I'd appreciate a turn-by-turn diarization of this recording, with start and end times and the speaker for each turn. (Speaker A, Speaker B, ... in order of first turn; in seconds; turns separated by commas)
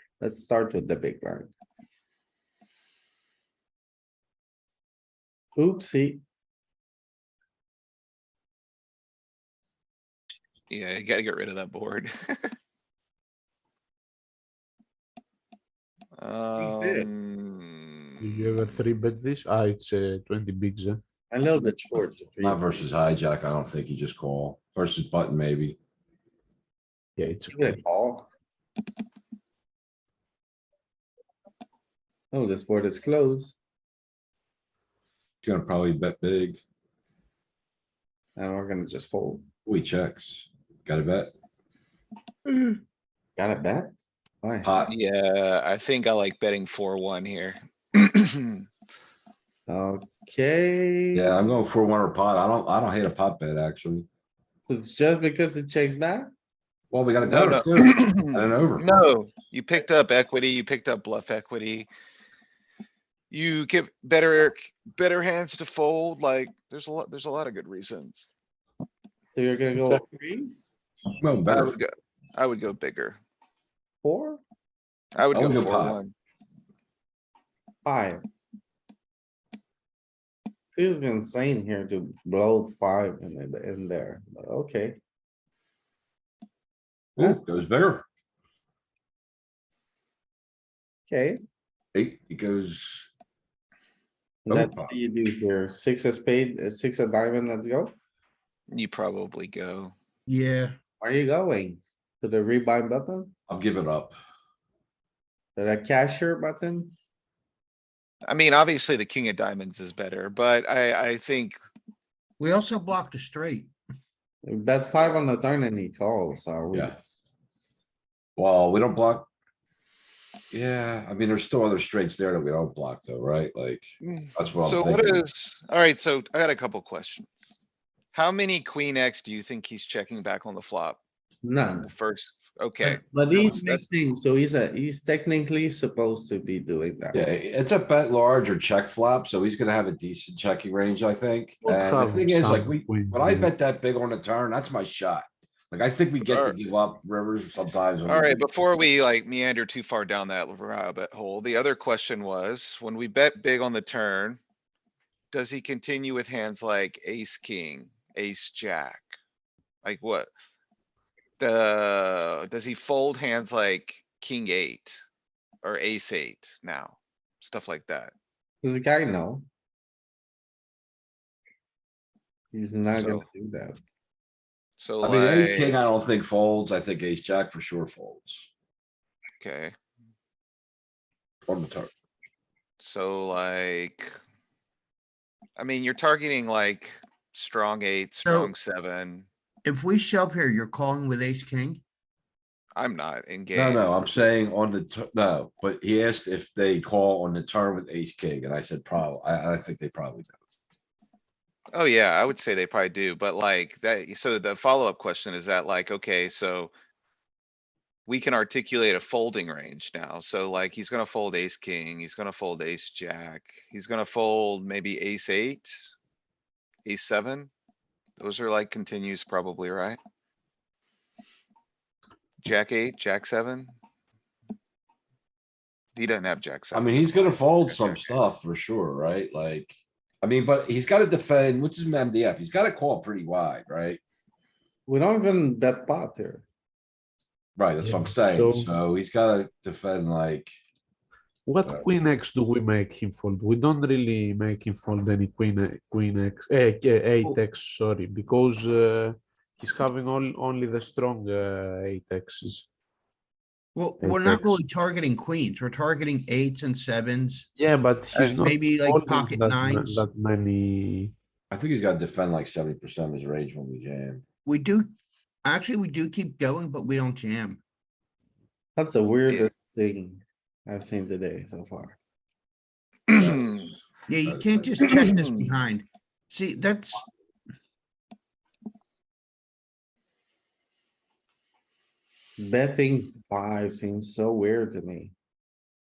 Speaker A: 0.2-1.5, Speaker A: 5.5-6.2, Speaker B: 10.7-12.5, Speaker B: 16.2-18.7, Speaker A: 16.6-17.3, Speaker C: 18.2-21.0, Speaker A: 21.3-22.9, Speaker D: 22.4-25.8, Speaker C: 27.2-27.8, Speaker A: 27.5-28.3, Speaker A: 32.3-33.6, Speaker D: 35.4-36.6, Speaker A: 38.4-39.4, Speaker D: 39.6-41.3, Speaker A: 43.4-44.8, Speaker D: 44.6-44.9, Speaker B: 44.9-48.6, Speaker A: 49.7-51.5, Speaker D: 51.1-54.1, Speaker A: 54.7-56.3, Speaker D: 56.9-58.9, Speaker B: 57.2-61.9, Speaker B: 63.3-68.3, Speaker A: 69.3-70.5, Speaker D: 71.2-71.8, Speaker B: 71.5-73.2, Speaker A: 74.0-74.4, Speaker B: 75.1-76.1, Speaker D: 75.3-76.0, Speaker A: 77.8-78.2, Speaker A: 80.7-85.0, Speaker D: 87.2-88.0, Speaker A: 91.1-91.4, Speaker D: 91.9-93.1, Speaker A: 94.5-97.9, Speaker D: 94.5-94.9, Speaker B: 98.7-99.9, Speaker E: 100.3-100.8, Speaker A: 101.0-103.3, Speaker D: 103.5-104.2, Speaker A: 105.5-107.0, Speaker B: 108.2-111.6, Speaker E: 112.4-113.7, Speaker A: 114.4-117.0, Speaker D: 118.3-119.2, Speaker D: 120.5-125.2, Speaker B: 124.0-127.5, Speaker B: 128.1-131.0, Speaker A: 131.4-131.9, Speaker B: 131.9-133.8, Speaker A: 132.8-137.2, Speaker D: 137.1-148.4, Speaker C: 141.6-143.5, Speaker B: 146.2-146.6, Speaker B: 148.1-154.4, Speaker B: 155.3-159.1, Speaker B: 159.8-160.3, Speaker B: 161.4-165.0, Speaker B: 165.6-168.1, Speaker A: 168.6-169.4, Speaker A: 172.5-173.8, Speaker B: 172.8-173.3, Speaker B: 174.8-175.8, Speaker D: 175.0-178.5, Speaker B: 179.4-179.7, Speaker D: 181.4-181.9, Speaker B: 182.8-184.1, Speaker B: 185.6-189.3, Speaker E: 188.2-188.5, Speaker E: 189.6-191.8, Speaker B: 192.8-194.0, Speaker D: 193.5-200.4, Speaker B: 201.7-206.7, Speaker B: 208.1-215.9, Speaker B: 216.8-217.5, Speaker B: 218.2-220.0, Speaker B: 222.4-223.7, Speaker B: 225.9-228.2, Speaker D: 226.7-234.0, Speaker A: 234.9-236.4, Speaker D: 237.6-240.5, Speaker C: 237.8-238.7, Speaker C: 241.4-252.7, Speaker E: 253.7-257.5, Speaker C: 254.0-254.6, Speaker C: 257.6-261.1, Speaker E: 258.1-260.1, Speaker D: 261.5-264.2, Speaker E: 264.4-264.9, Speaker E: 265.4-267.6, Speaker A: 268.8-272.0, Speaker B: 269.3-269.5, Speaker B: 273.1-273.7, Speaker E: 274.1-277.0, Speaker D: 274.2-274.8, Speaker B: 274.9-275.5, Speaker A: 282.4-285.1